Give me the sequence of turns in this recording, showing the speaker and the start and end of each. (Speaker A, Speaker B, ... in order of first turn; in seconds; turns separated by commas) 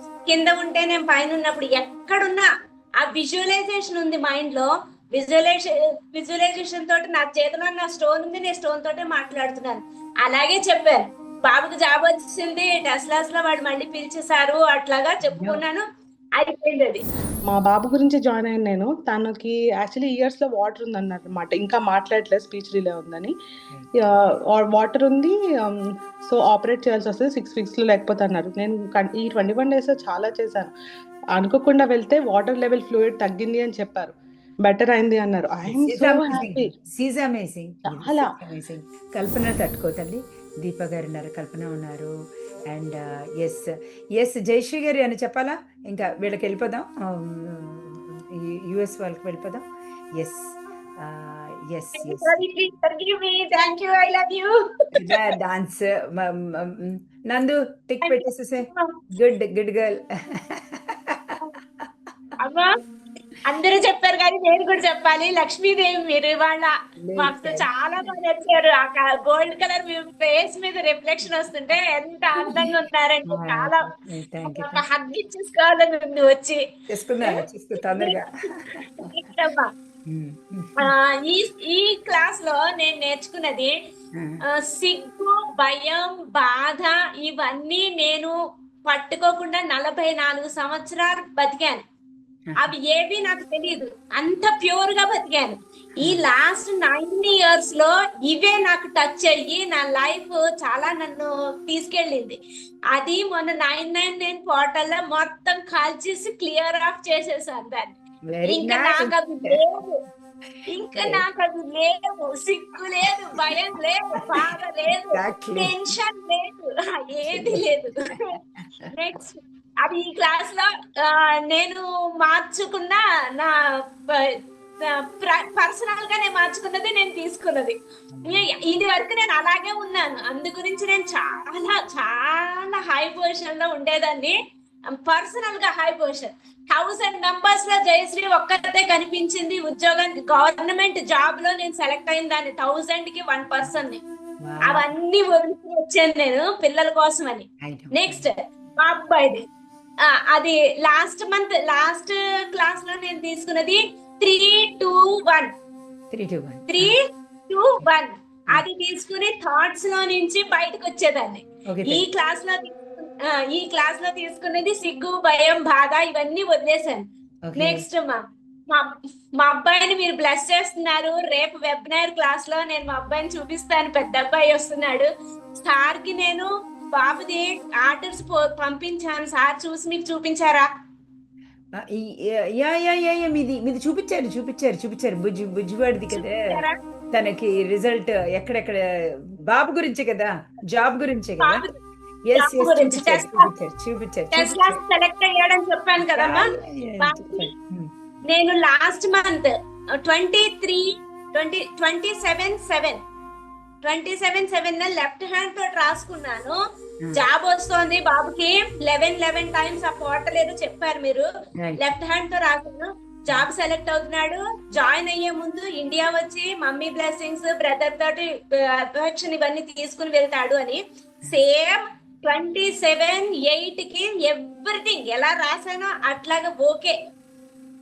Speaker A: 0.3-2.5, Speaker A: 3.0-15.8, Speaker B: 15.3-15.6, Speaker A: 16.4-17.0, Speaker C: 17.5-23.3, Speaker C: 24.0-30.7, Speaker C: 31.4-36.7, Speaker B: 35.7-42.1, Speaker C: 37.9-38.3, Speaker B: 42.7-49.6, Speaker B: 50.2-52.4, Speaker A: 52.0-55.0, Speaker B: 54.9-61.4, Speaker A: 58.0-59.0, Speaker A: 62.4-62.7, Speaker A: 63.5-73.9, Speaker B: 67.0-68.0, Speaker B: 72.4-72.7, Speaker B: 73.3-74.8, Speaker A: 74.5-76.6, Speaker B: 76.9-78.9, Speaker A: 77.3-78.5, Speaker A: 79.0-79.7, Speaker B: 80.1-80.9, Speaker A: 80.8-83.8, Speaker B: 84.2-84.4, Speaker A: 84.6-88.3, Speaker A: 88.9-91.8, Speaker B: 92.5-92.7, Speaker A: 92.6-102.4, Speaker A: 102.9-108.0, Speaker B: 108.3-109.6, Speaker A: 108.5-110.0, Speaker A: 110.7-118.4, Speaker B: 111.0-111.2, Speaker B: 115.0-116.0, Speaker B: 117.3-117.6, Speaker B: 118.6-118.9, Speaker A: 118.9-123.5, Speaker A: 124.1-134.3, Speaker B: 128.1-128.5, Speaker A: 135.0-144.0, Speaker B: 144.4-144.9, Speaker A: 144.7-149.4, Speaker B: 147.6-148.3, Speaker A: 150.1-155.5, Speaker B: 156.1-156.9, Speaker A: 156.7-157.0, Speaker A: 157.5-167.0, Speaker B: 161.7-162.0, Speaker B: 167.4-167.9, Speaker A: 167.6-180.7, Speaker B: 181.8-191.7, Speaker A: 186.1-186.8, Speaker A: 191.4-191.7, Speaker B: 192.2-194.8, Speaker A: 192.4-193.5, Speaker A: 194.3-196.4, Speaker B: 196.0-197.9, Speaker A: 197.0-197.5, Speaker A: 198.3-203.0, Speaker A: 203.8-206.6, Speaker A: 207.2-211.3, Speaker A: 211.8-227.0